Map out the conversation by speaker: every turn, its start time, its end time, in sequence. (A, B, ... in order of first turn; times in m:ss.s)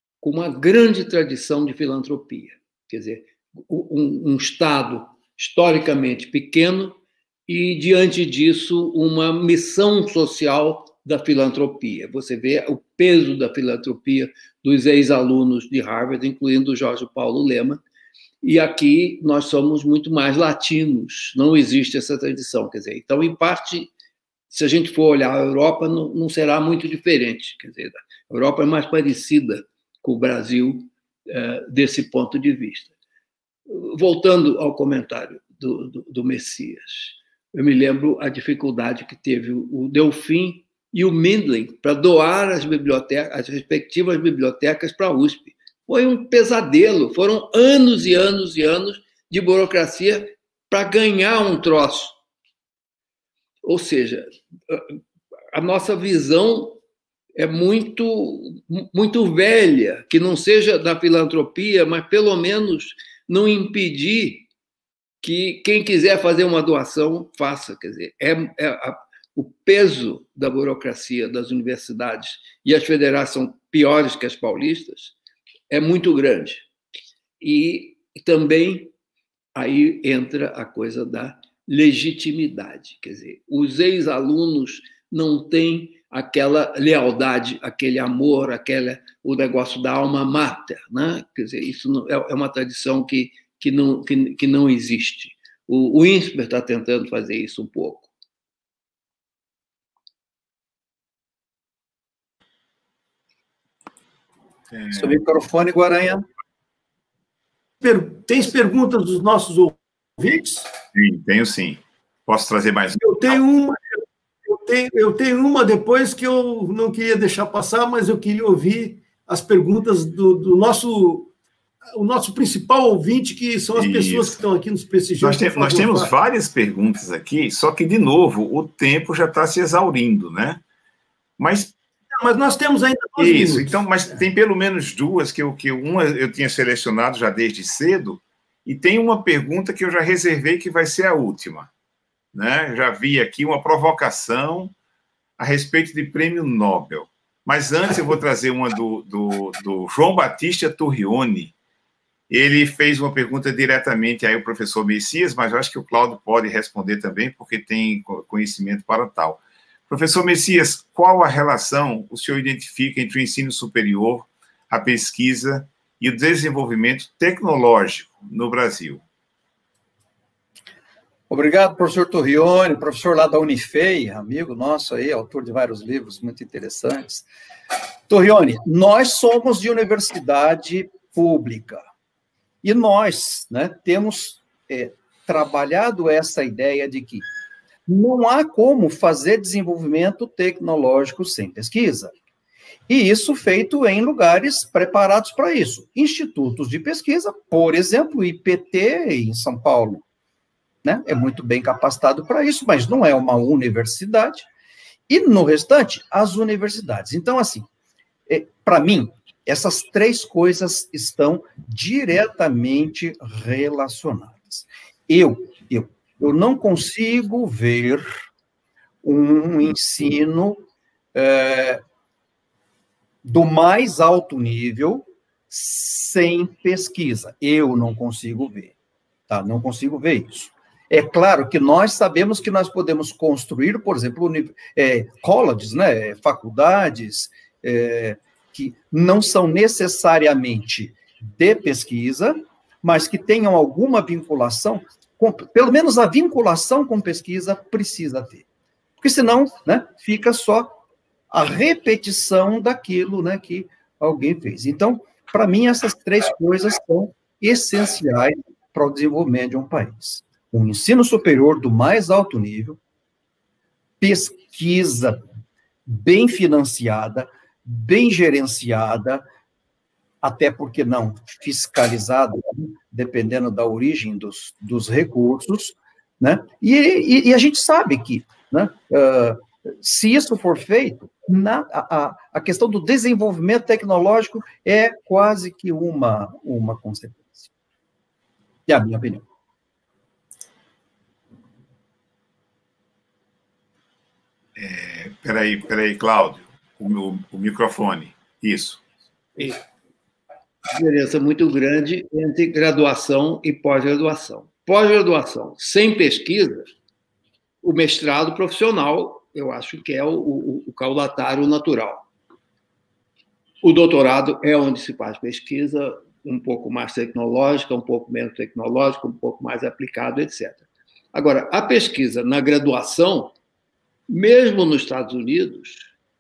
0:00.2-0:17.8 A
0:18.4-0:23.9 A
0:24.5-0:32.9 A
0:33.7-0:52.2 A
0:53.6-0:55.0 A
0:55.5-0:56.8 A
0:57.4-1:04.5 A
1:05.2-1:15.2 A
1:15.7-1:16.7 A
1:17.4-1:18.9 A
1:19.5-1:38.1 A
1:44.7-1:45.0 B
1:44.9-1:46.2 C
1:47.8-1:50.7 D
1:50.9-1:53.4 B
1:53.0-1:53.8 D
1:54.4-2:01.3 D
2:02.0-2:06.1 D
2:03.8-2:04.3 B
2:05.2-2:10.6 B
2:11.4-2:11.7 B
2:12.1-2:13.8 D
2:13.2-2:21.7 B
2:22.3-2:24.7 B
2:25.4-2:31.5 B
2:32.3-2:49.0 B
2:51.3-2:57.2 C
2:58.1-3:01.8 C
3:02.6-3:07.2 C
3:07.9-3:12.1 C
3:12.9-3:20.0 C
3:20.8-3:24.5 C
3:25.1-3:27.7 C
3:28.3-3:38.1 C
3:39.0-3:41.8 C
3:43.2-3:48.7 C
3:49.3-4:08.4 C
4:09.0-4:10.8 C
4:11.3-4:22.8 C
4:24.0-4:25.2 C
4:25.8-4:29.2 C
4:30.2-4:47.5 C
4:48.7-4:49.2 C
4:54.6-4:58.8 B
5:00.7-5:06.7 A
5:07.6-5:12.1 A
5:13.6-5:23.3 A
5:24.1-5:25.9 A